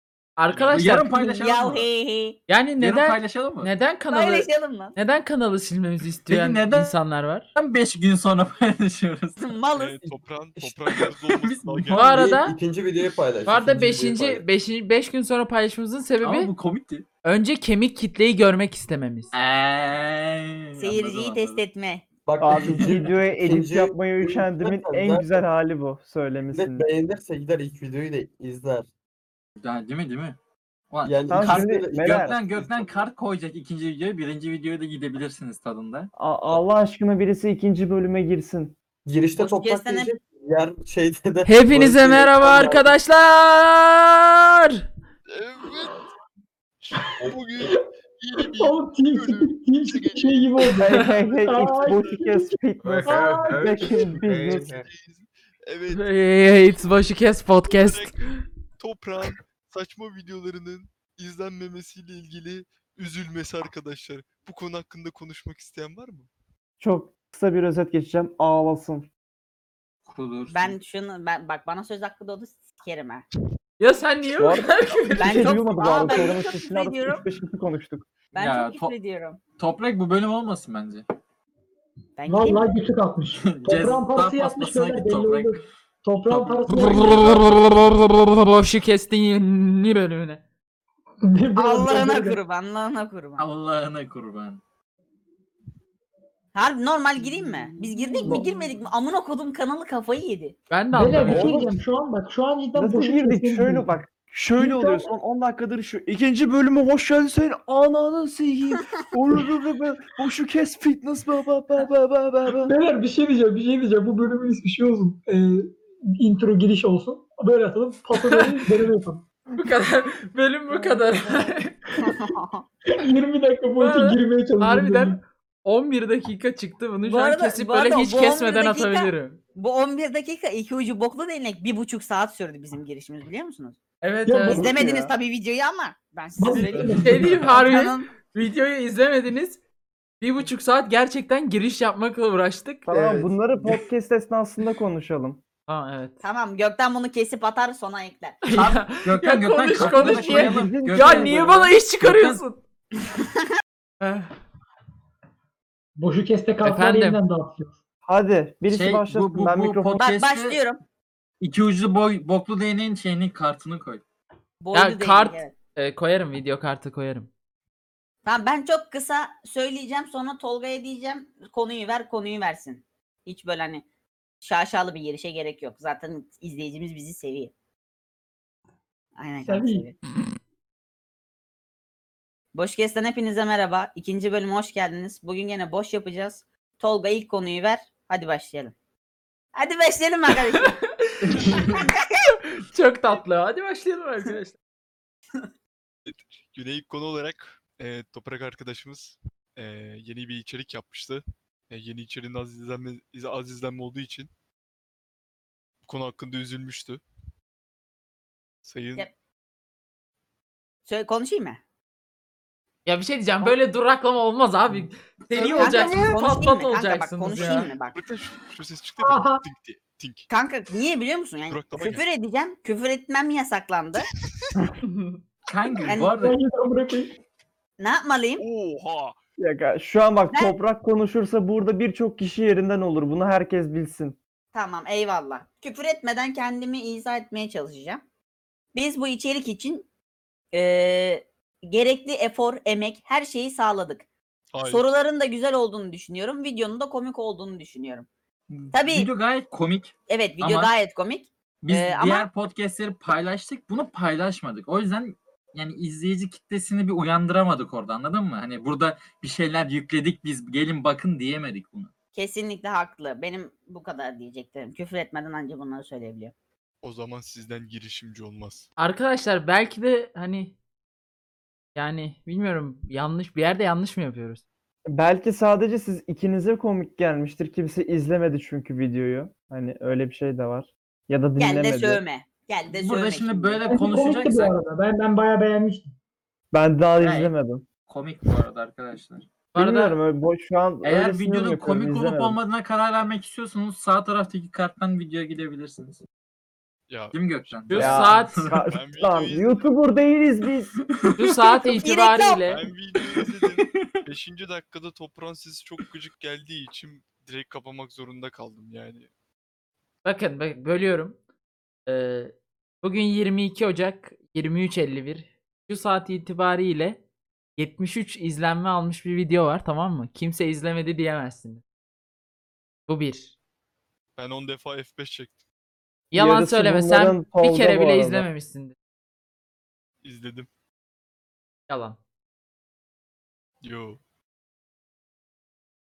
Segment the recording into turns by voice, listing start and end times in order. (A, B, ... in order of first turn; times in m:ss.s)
0:00.4-0:01.5 A
0:00.5-0:00.8 B
0:00.7-0:01.9 C
0:01.4-0:02.4 D
0:02.5-0:07.5 A
0:02.8-0:03.7 C
0:04.1-0:05.0 D
0:06.3-0:07.0 C
0:07.6-0:09.4 C
0:09.4-0:10.1 D
0:09.7-0:12.4 B
0:10.6-0:10.9 E
0:10.9-0:12.0 C
0:12.0-0:12.6 A
0:12.0-0:14.4 E
0:13.5-0:16.5 A
0:16.2-0:17.1 C
0:17.2-0:19.3 A
0:19.3-0:21.6 C
0:20.8-0:22.1 D
0:22.2-0:25.4 E
0:22.4-0:26.9 F
0:26.5-0:28.9 E
0:29.6-0:30.4 C
0:30.9-0:36.1 C
0:31.0-0:33.0 E
0:31.3-0:32.4 F
0:36.2-0:38.8 F
0:39.0-0:42.9 E
0:39.4-0:40.2 D
0:41.4-0:44.8 A
0:45.3-0:46.1 B
0:46.8-0:51.1 B
0:48.5-0:54.1 G
0:50.8-0:54.7 F
0:52.8-0:54.9 E
0:54.2-0:56.1 B
0:55.9-0:58.2 A
0:57.7-0:58.2 B
0:58.8-1:06.3 B
1:06.8-1:09.1 F
1:10.1-1:10.8 C
1:10.5-1:13.2 D
1:13.8-1:15.6 A
1:14.4-1:18.1 F
1:15.2-1:17.2 D
1:18.3-1:19.4 D
1:18.4-1:18.9 C
1:19.6-1:21.0 C
1:22.2-1:22.7 D
1:22.3-1:27.2 G
1:23.4-1:25.6 C
1:26.2-1:27.4 C
1:26.7-1:30.4 A
1:31.2-1:32.4 G
1:31.6-1:33.4 D
1:33.4-1:34.6 C
1:36.6-1:40.6 D
1:40.7-1:41.6 A
1:40.9-1:43.9 G
1:41.3-1:41.8 F
1:42.8-1:52.7 F
1:44.6-1:45.1 G
1:52.6-1:59.3 G
1:59.6-2:01.7 A
2:02.0-2:02.6 D
2:02.9-2:05.2 G
2:03.8-2:09.4 A
2:07.0-2:13.8 D
2:14.0-2:14.7 A
2:14.3-2:14.8 G
2:14.5-2:18.1 D
2:14.6-2:15.1 F
2:16.4-2:17.6 G
2:16.5-2:17.3 C
2:17.0-2:19.6 A
2:20.2-2:22.9 A
2:22.9-2:25.4 F
2:22.9-2:23.2 C
2:25.7-2:26.2 A
2:26.2-2:28.4 D
2:28.4-2:32.6 A
2:28.5-2:32.4 C
2:29.8-2:31.7 F
2:34.0-2:34.3 A
2:36.0-2:37.8 G
2:36.6-2:37.2 A
2:38.1-2:40.0 F
2:38.7-2:40.6 C
2:40.0-2:40.8 D
2:41.4-2:44.0 C
2:44.6-2:45.5 D
2:44.7-2:47.3 A
2:48.2-2:53.8 D
2:54.4-2:57.5 D
2:59.2-3:00.0 D
2:59.4-2:59.9 G
3:02.5-3:08.7 D
3:09.6-3:10.8 D
3:11.1-3:11.6 A
3:11.4-3:12.1 D
3:12.6-3:14.6 A
3:16.1-3:24.3 B
3:25.8-3:27.0 B
3:28.6-3:29.1 B
3:30.9-3:31.6 D
3:32.9-3:37.7 A
3:35.5-3:38.0 D
3:37.9-3:40.3 B
3:39.0-3:39.4 G
3:40.3-3:44.1 D
3:41.5-3:42.1 B
3:44.2-3:44.5 B
3:44.9-3:45.2 A
3:45.5-3:46.4 C
3:46.1-3:47.2 G
3:47.8-3:48.4 D
3:48.4-3:49.2 B
3:49.4-3:54.2 F
3:54.5-3:58.0 D
3:58.7-3:59.9 D
4:00.5-4:04.1 D
4:04.5-4:04.8 B
4:04.6-4:08.1 D
4:08.5-4:10.7 C
4:08.7-4:09.1 D
4:10.1-4:12.3 D
4:11.6-4:21.9 C
4:22.1-4:26.3 D
4:26.8-4:28.7 B
4:28.8-4:30.6 A
4:31.8-4:34.4 A
4:34.9-4:42.0 F
4:41.4-4:43.7 D
4:42.7-4:44.6 C
4:43.6-4:45.9 G
4:46.5-4:47.6 F
4:47.0-4:47.3 C
4:47.9-4:49.3 C
4:49.6-4:50.0 A
4:49.6-4:52.4 F
4:50.8-4:56.0 C
4:56.9-4:59.7 B
4:57.1-4:58.6 C
4:57.7-4:58.4 A
4:57.8-5:00.8 F
5:01.2-5:02.6 A
5:01.6-5:02.5 D
5:02.5-5:09.1 B
5:03.0-5:04.0 C
5:10.0-5:11.2 A
5:11.9-5:17.0 A
5:17.6-5:21.6 A
5:22.9-5:23.4 A
5:24.2-5:25.4 B
5:26.1-5:28.8 A
5:26.1-5:28.3 F
5:30.0-5:30.5 B
5:31.7-5:32.0 A
5:33.6-5:34.0 B